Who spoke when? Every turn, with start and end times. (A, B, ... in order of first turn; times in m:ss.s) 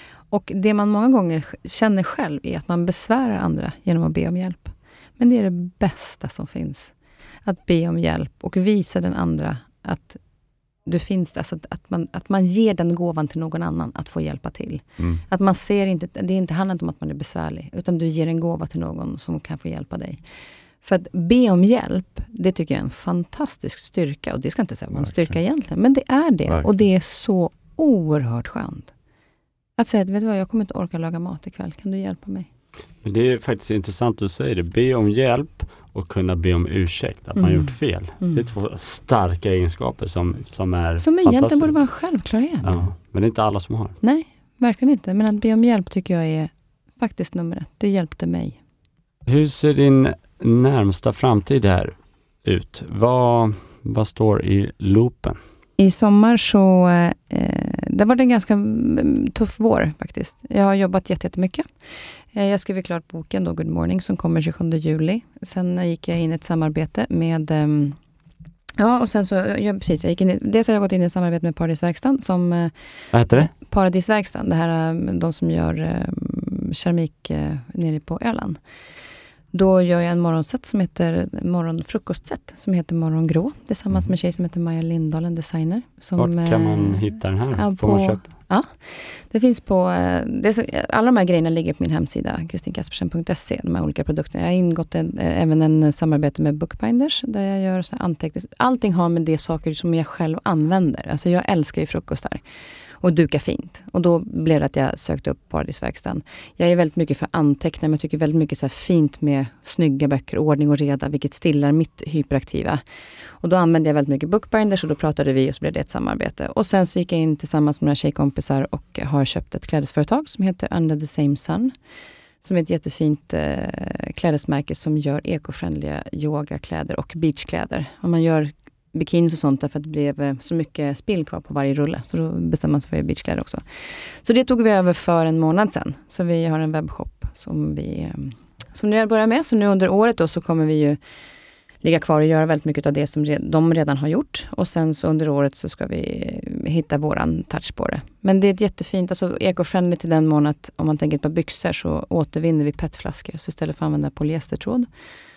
0:00.3-0:06.9 A
0:07.4-0:10.2 A
0:10.8-0:20.2 A
0:20.8-0:28.9 A
0:29.8-0:32.5 A
0:33.0-0:41.7 B
0:37.4-0:38.4 A
0:41.0-0:42.8 A
0:42.6-0:44.0 B
0:44.0-0:48.6 A
0:49.3-0:55.4 B
0:55.8-1:01.6 A
1:02.3-1:08.0 A
1:08.8-1:12.7 A
1:13.1-1:13.5 B
1:13.3-1:18.6 A
1:19.5-1:42.4 A
1:26.2-1:28.2 B
1:43.0-1:52.8 A
1:53.4-2:01.7 A
2:02.4-2:13.6 A
2:14.1-2:21.0 A
2:21.8-2:34.9 A